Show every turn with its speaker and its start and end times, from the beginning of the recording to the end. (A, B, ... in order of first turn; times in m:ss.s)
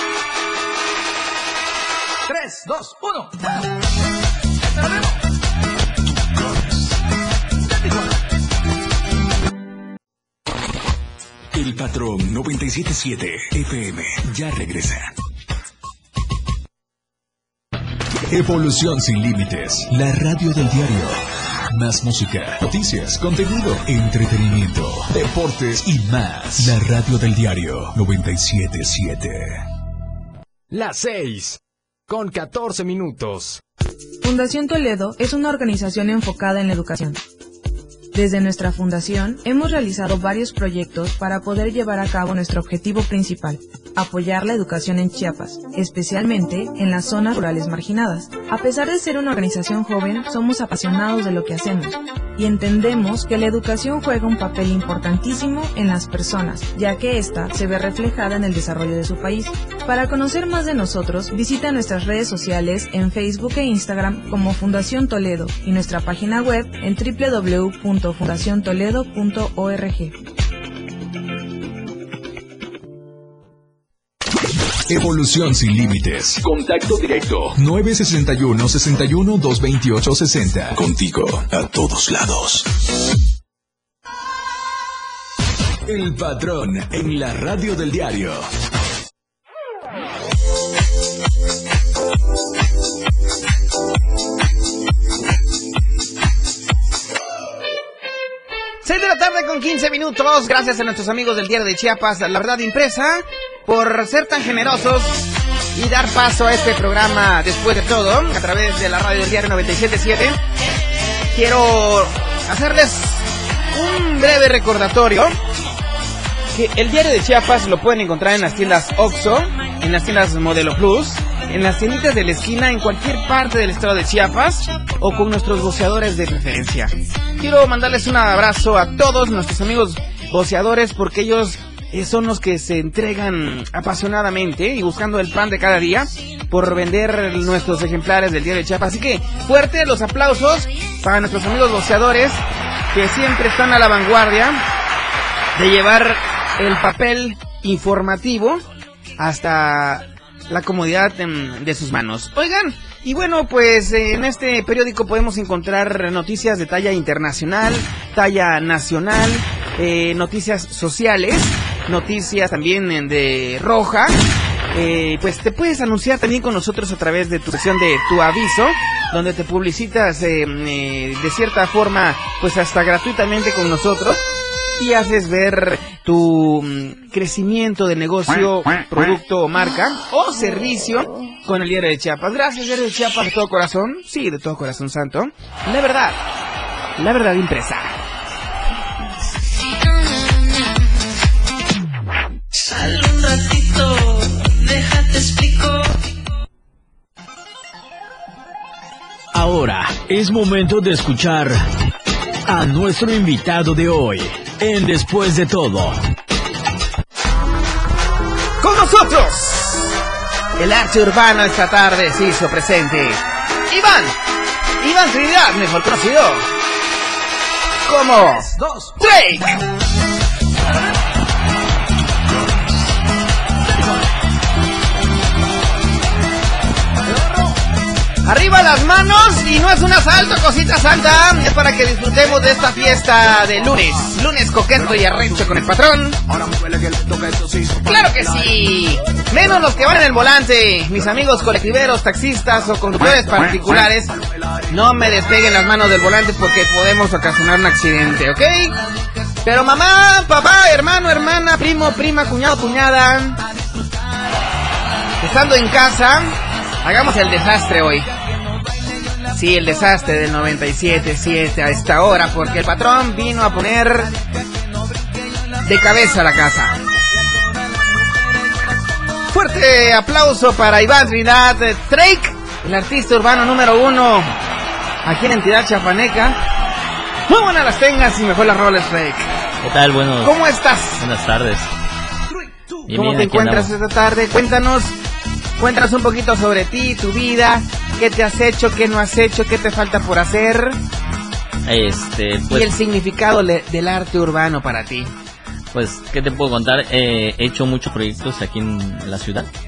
0:02.3-0:03.3 A
0:11.5-0:15.1 B
0:18.3-0:21.2 B
0:21.7-0:29.6 B
0:30.7-0:33.6 C
0:34.2-0:37.2 D
0:38.1-1:10.2 D
1:14.9-1:22.7 B
1:25.9-1:28.4 B
1:38.8-1:50.4 E
1:51.3-1:55.4 E
1:56.5-2:24.6 E
2:25.6-2:28.6 E
2:29.2-2:44.2 E
2:44.7-2:54.2 E
2:54.8-3:06.2 E
3:07.0-3:07.9 E
3:12.8-3:15.9 F
3:19.3-3:21.6 A
3:22.5-3:26.0 A
3:28.6-3:29.9 E
3:30.6-3:34.2 E
3:34.8-3:36.5 E
3:37.8-3:39.6 E
3:38.6-3:39.0 A
3:48.2-3:56.2 E
3:57.8-4:04.1 E
4:04.7-4:08.8 E
4:08.7-4:09.5 F
4:09.4-4:13.4 E
4:13.4-4:14.3 F
4:15.2-4:18.1 E
4:17.1-4:19.3 F
4:19.3-4:24.1 E
4:24.0-4:26.4 F
4:25.6-4:26.8 E
4:27.2-4:29.0 F
4:29.3-4:34.3 E
4:35.0-4:36.4 E
4:37.3-4:39.3 E
4:39.6-4:40.3 G
4:40.2-4:41.0 E
4:41.0-4:41.7 G
4:42.9-4:43.7 G
4:42.9-4:45.0 E
4:45.6-4:50.8 E
4:51.6-4:52.7 G
4:52.5-4:55.1 E
4:55.7-4:59.5 G